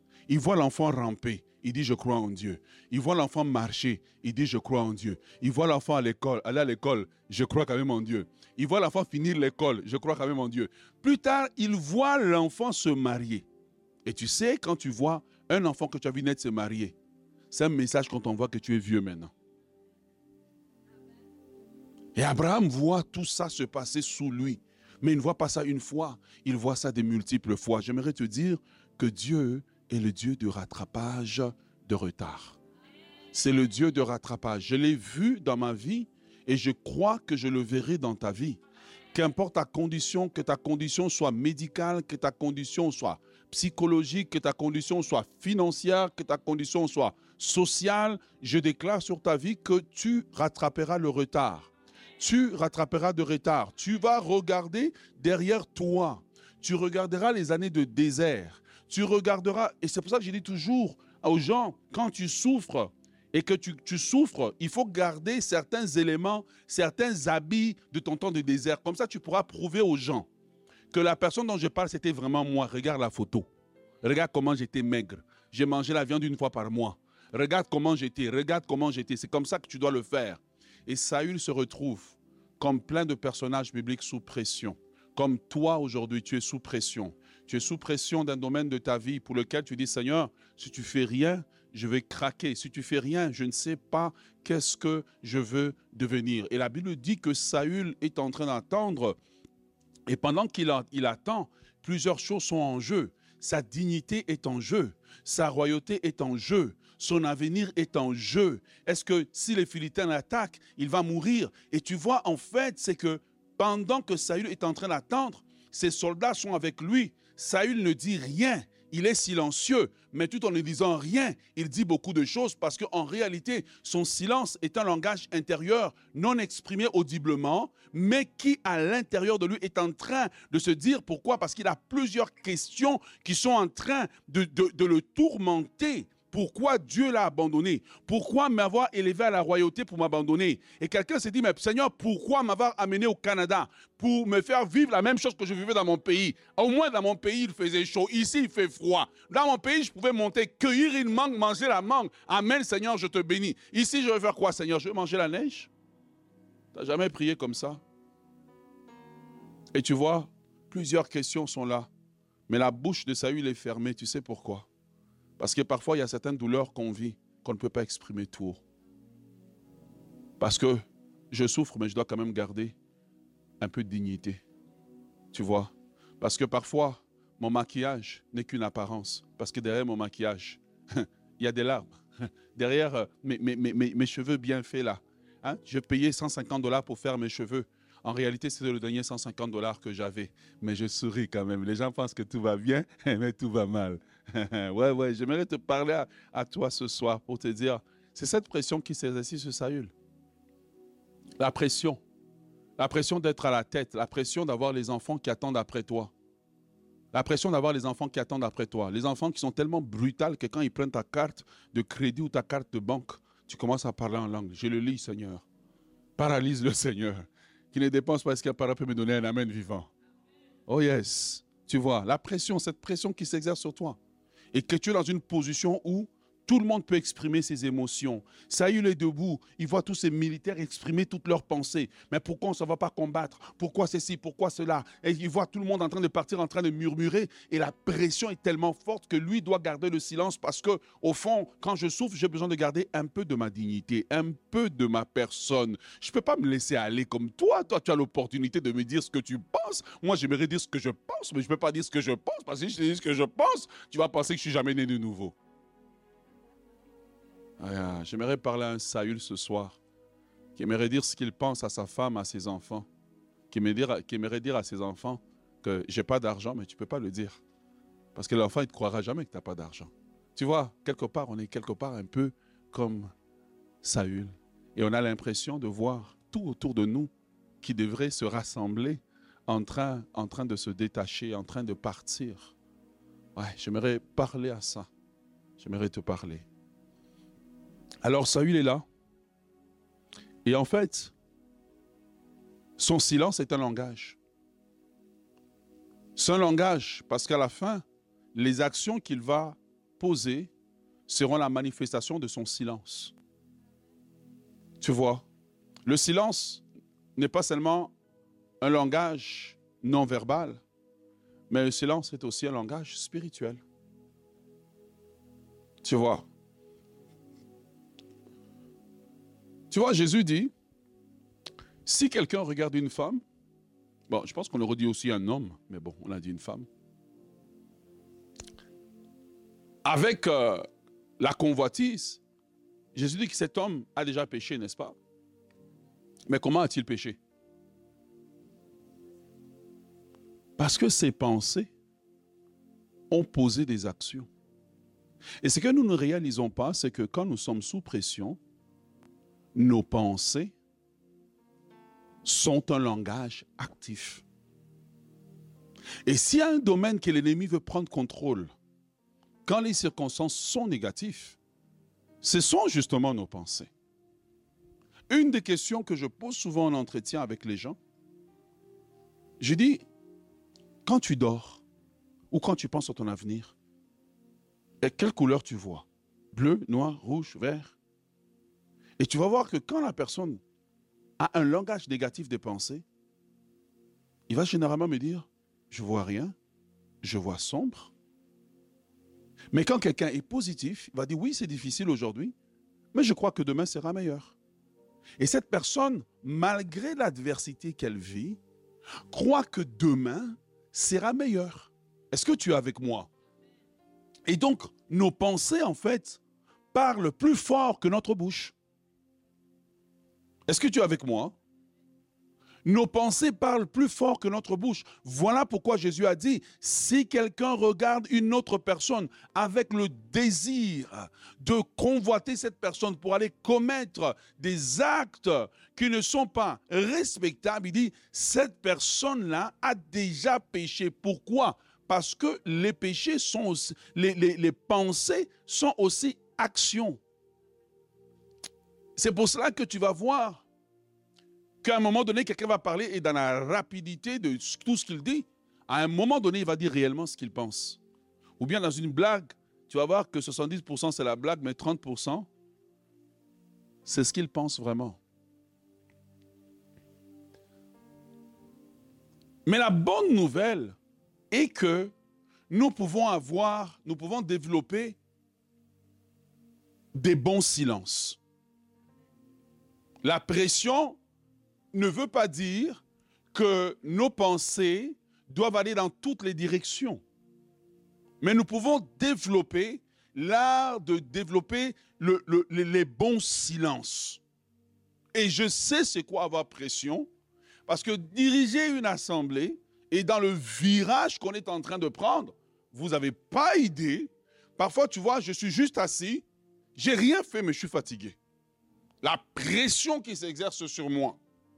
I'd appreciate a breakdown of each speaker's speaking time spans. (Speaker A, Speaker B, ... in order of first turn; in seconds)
Speaker A: 0.3-13.4, 14.0-16.9, 17.5-19.3, 22.1-32.6, 33.3-38.6, 39.1-70.3, 70.9-73.5, 74.0-99.2, 100.1-155.7, 156.7-157.8, 159.7-161.9, 162.5-164.7, 165.4-168.6, 170.4-172.8, 173.6-174.4, 175.3-182.0, 182.5-199.9, 201.4-202.0, 202.8-206.1, 207.1-215.4, 216.2-219.9, 220.7-224.0, 224.5-255.3, 257.6-259.8, 260.5-262.9, 263.5-267.4, 268.1-273.1, 273.8-282.5, 283.4-284.9, 285.6-286.4, 288.0-288.8, 290.4-291.1, 292.8-294.2, 296.1-297.8, 298.3-300.5, 301.1-303.1, 304.8-305.2, 305.9-306.6, 307.1-307.9, 308.6-310.6, 311.5-313.6, 315.8-316.2, 319.7-320.5, 321.8-323.2, 324.1-326.7, 329.8-330.6, 331.2-332.2, 332.9-335.0, 336.3-337.2, 340.6-341.7, 343.1-344.3, 345.4-348.4, 349.5-350.5, 352.2-354.2, 356.1-358.5, 359.4-361.4, 362.2-363.7, 365.1-367.8, 369.4-369.8, 370.8-371.6, 372.3-373.6, 374.8-377.8, 379.0-380.4, 381.2-382.9, 384.3-386.3, 387.0-387.9, 389.5-392.3, 392.9-394.4, 395.2-398.4, 399.1-403.1, 404.3-406.2, 406.7-408.5, 410.5-411.3, 412.6-437.0, 438.9-440.4, 441.6-447.8, 448.4-452.3, 453.8-455.0, 459.4-460.8, 461.3-461.9, 462.5-465.0, 466.9-468.2, 470.0-471.0, 471.7-477.0, 478.2-484.2, 485.1-487.1, 487.7-498.2, 499.0-501.2